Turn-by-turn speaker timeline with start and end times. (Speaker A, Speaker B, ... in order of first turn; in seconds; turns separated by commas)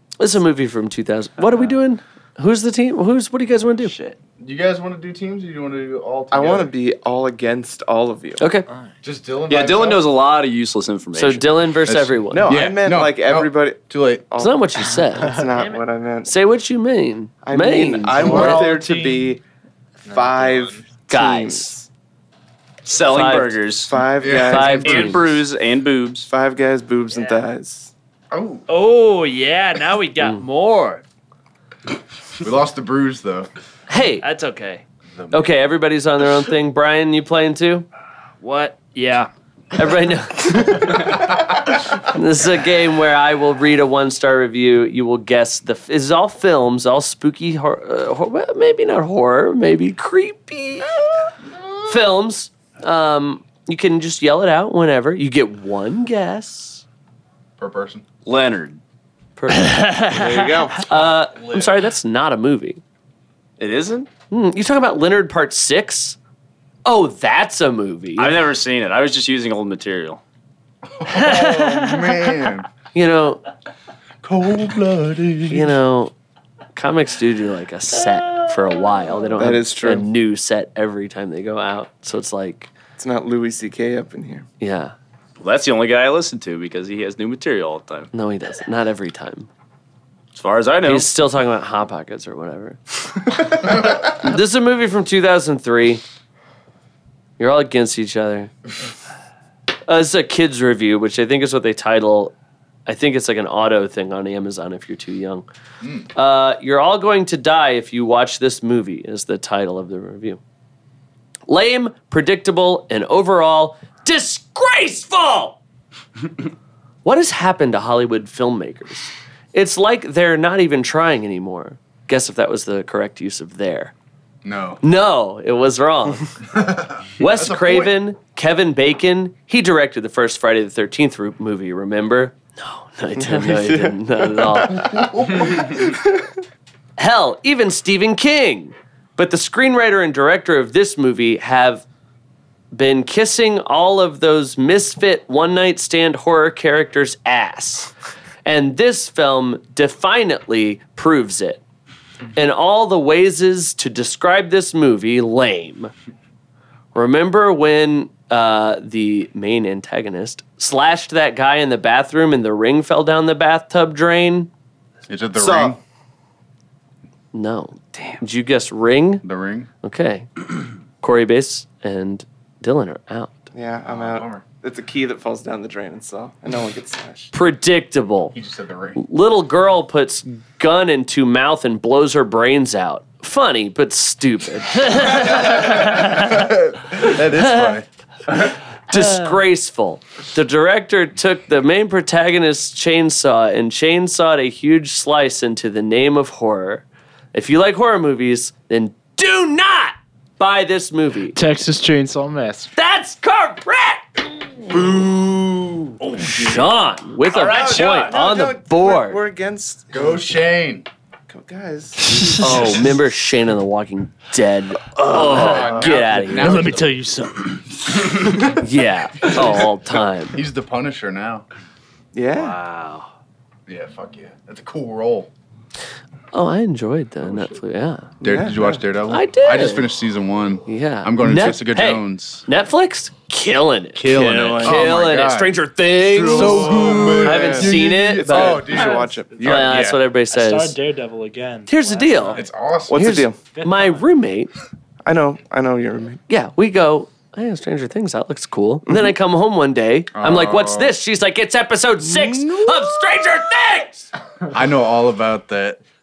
Speaker A: 0.2-3.9, Speaker B: 3.9-4.2, Speaker C: 4.4-6.7, Speaker D: 6.3-8.5, Speaker A: 8.4-8.7, Speaker C: 9.0-10.1, Speaker E: 9.5-11.5, Speaker A: 11.1-12.6, Speaker C: 11.8-14.3, Speaker D: 12.3-16.3, Speaker A: 14.4-15.5, Speaker A: 16.2-18.7, Speaker D: 17.4-19.4, Speaker F: 18.1-19.3, Speaker F: 20.1-20.8, Speaker D: 20.1-21.9, Speaker A: 21.1-21.8, Speaker E: 22.9-23.9, Speaker A: 22.9-23.6, Speaker D: 23.9-25.1, Speaker C: 24.2-25.2, Speaker A: 24.3-25.2, Speaker E: 24.8-26.3, Speaker D: 26.3-27.9, Speaker B: 27.1-27.4, Speaker C: 28.3-28.6, Speaker B: 28.7-31.0, Speaker C: 32.4-33.5, Speaker A: 33.9-34.2, Speaker B: 34.2-34.8, Speaker A: 35.3-37.9, Speaker B: 38.4-39.3, Speaker A: 39.7-50.9, Speaker A: 51.8-56.8, Speaker C: 57.6-58.0, Speaker E: 58.2-58.8, Speaker A: 59.4-59.9, Speaker B: 59.5-60.7, Speaker D: 60.1-60.9, Speaker A: 60.8-62.8, Speaker C: 61.3-61.8, Speaker E: 63.6-64.1, Speaker A: 64.3-66.2, Speaker A: 66.8-68.4, Speaker E: 68.2-70.2, Speaker C: 70.9-72.7, Speaker B: 71.1-72.3, Speaker A: 72.9-73.4, Speaker C: 74.2-75.8, Speaker A: 75.5-76.1, Speaker A: 76.7-82.7, Speaker D: 79.3-80.1, Speaker D: 83.0-84.5, Speaker A: 84.6-84.9, Speaker E: 85.4-88.1, Speaker A: 88.1-89.5, Speaker E: 90.3-91.1, Speaker A: 90.8-92.8, Speaker A: 93.3-96.0, Speaker A: 97.4-98.5, Speaker A: 99.9-102.3, Speaker A: 102.8-105.5, Speaker C: 105.8-106.1, Speaker A: 106.1-110.4, Speaker A: 111.5-115.6, Speaker A: 117.0-123.9, Speaker C: 124.4-124.8, Speaker A: 124.8-126.4, Speaker C: 126.5-128.0, Speaker A: 127.2-135.0, Speaker D: 133.2-136.2, Speaker C: 134.8-135.8, Speaker A: 137.0-141.8, Speaker A: 142.7-147.9, Speaker A: 148.4-151.6, Speaker A: 152.3-155.9, Speaker A: 156.9-164.5, Speaker C: 165.1-165.8, Speaker D: 165.3-165.8, Speaker A: 167.3-169.2, Speaker C: 169.2-169.7, Speaker A: 169.8-173.4, Speaker D: 173.5-177.3, Speaker C: 173.8-174.4, Speaker A: 177.3-178.3, Speaker C: 178.3-179.0, Speaker A: 178.9-185.6, Speaker C: 185.1-188.5, Speaker A: 188.9-201.4, Speaker F: 201.3-202.7, Speaker A: 202.7-204.8, Speaker C: 204.8-205.4, Speaker E: 206.1-206.6, Speaker A: 206.2-209.2, Speaker C: 206.2-206.5, Speaker E: 207.3-208.2, Speaker D: 207.5-210.2, Speaker C: 209.9-210.9, Speaker D: 211.3-212.9, Speaker A: 212.4-216.8, Speaker D: 215.1-215.7, Speaker C: 215.1-217.0, Speaker F: 215.6-217.6, Speaker C: 217.9-218.5, Speaker A: 218.4-220.4, Speaker C: 219.3-219.7, Speaker C: 220.3-221.4, Speaker D: 222.1-222.6, Speaker C: 223.7-225.3, Speaker A: 226.3-228.1, Speaker D: 228.2-228.8, Speaker C: 228.2-232.4, Speaker A: 229.1-229.9, Speaker A: 230.7-240.8, Speaker C: 233.9-240.0, Speaker D: 234.6-234.8, Speaker D: 236.1-239.6, Speaker F: 238.8-242.4, Speaker A: 241.7-242.4, Speaker C: 242.3-243.3, Speaker D: 242.9-243.4, Speaker A: 242.9-244.5, Speaker F: 243.5-244.0, Speaker D: 245.0-246.2, Speaker A: 246.3-254.1, Speaker C: 250.1-251.0, Speaker C: 254.5-255.8